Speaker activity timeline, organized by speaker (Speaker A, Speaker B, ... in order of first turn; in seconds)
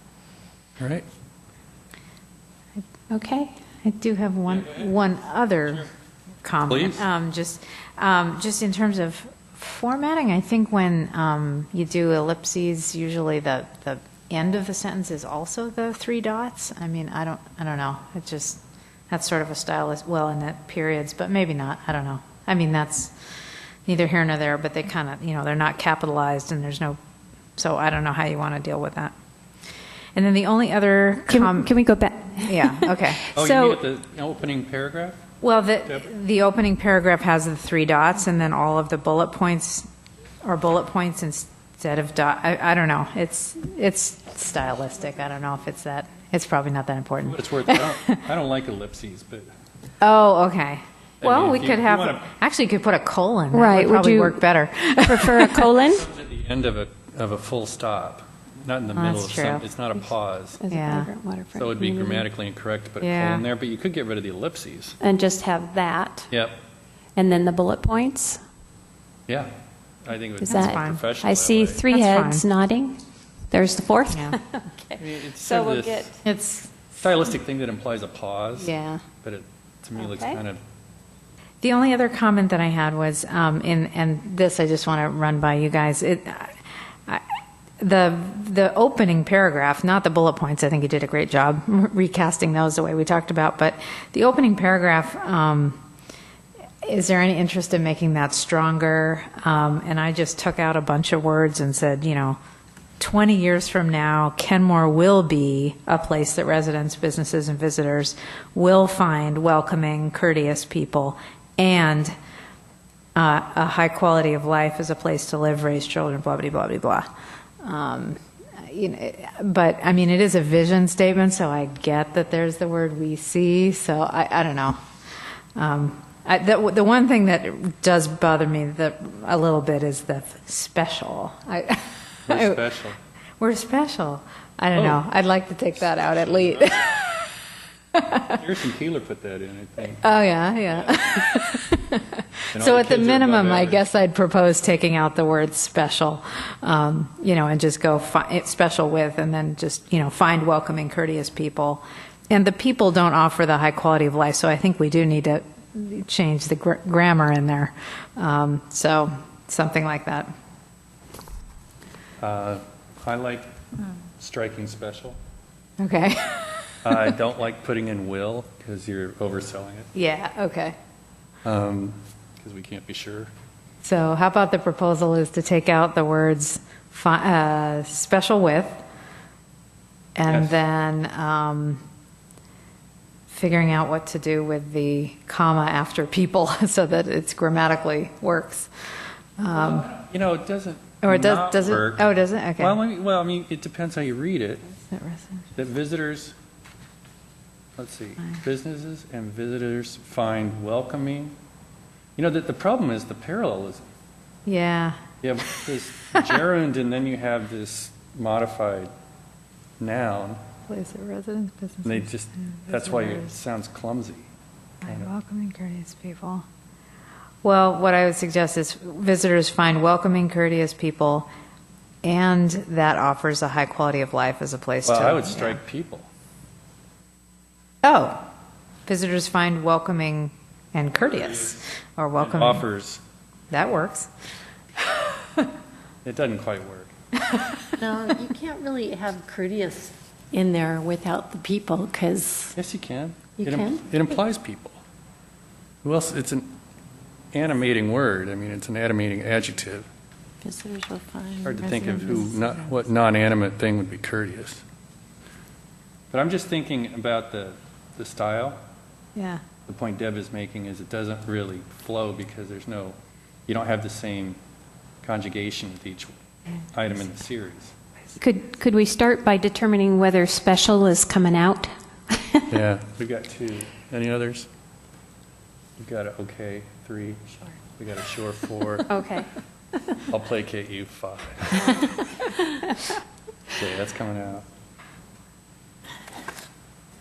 Speaker A: 0.8-1.1, 6.7-7.0, 33.3-35.2, 47.2-49.5, 51.2-52.3, 55.9-60.6, 61.5-65.0, 66.3-66.5, 70.0-71.8, 75.0-76.2, 77.0-80.6, 132.3-133.0, 134.7-135.0, 138.2-140.0, 142.5-143.8, 162.2-163.6, 164.2-165.2, 166.8-169.9, 171.4-173.3, 180.3-180.5, 189.5-194.7, 195.6-196.3, 197.8-201.3, 202.2-203.9, 205.2-208.9, 209.8-210.4, 211.8-214.3, 214.8-215.1, 224.8-226.1, 230.9-231.6, 232.2-233.0, 236.0-236.9, 242.5-244.8, 245.8-246.5, 247.3-249.9, 251.4-254.6, 256.1-258.6, 259.7-264.4, 265.0-266.1, 266.7-267.7, 272.5-274.5, 275.8-278.9, 280.1-281.8, 283.5-284.4
Speaker B: 3.1-3.5, 31.3-33.8, 53.5-56.1, 60.6-62.2, 65.0-66.3, 67.2-68.4, 70.4-73.0, 73.5-76.2, 80.0-80.4, 268.2-272.5, 278.9-279.3
Speaker C: 3.8-5.9, 6.4-23.1, 23.8-27.0, 27.6-29.1, 30.1-31.7, 32.3-33.3, 35.4-39.9, 40.4-48.2, 50.0-55.7, 58.9-59.6, 60.7-61.1, 63.0-63.5, 70.5-71.0, 71.9-72.4, 74.1-74.4, 76.2-76.7, 78.5-79.0, 81.6-87.2, 87.8-95.8, 96.8-102.4, 103.0-112.1, 113.2-117.1, 117.6-124.8, 125.5-132.6, 133.4-137.3, 137.9-138.4, 139.9-160.3, 165.8-167.1, 169.9-170.8, 173.8-178.8, 180.2-181.8, 183.3-188.7, 189.4-189.9, 191.0-192.8, 194.8-195.4, 204.4-205.0, 210.7-213.3, 214.8-216.4, 217.4-221.3, 222.0-225.6, 227.8-228.2, 228.8-232.6, 233.5-234.1, 234.8-235.5, 237.3-237.6, 259.1-259.4
Speaker D: 237.8-242.5, 243.4-243.9, 250.4-252.6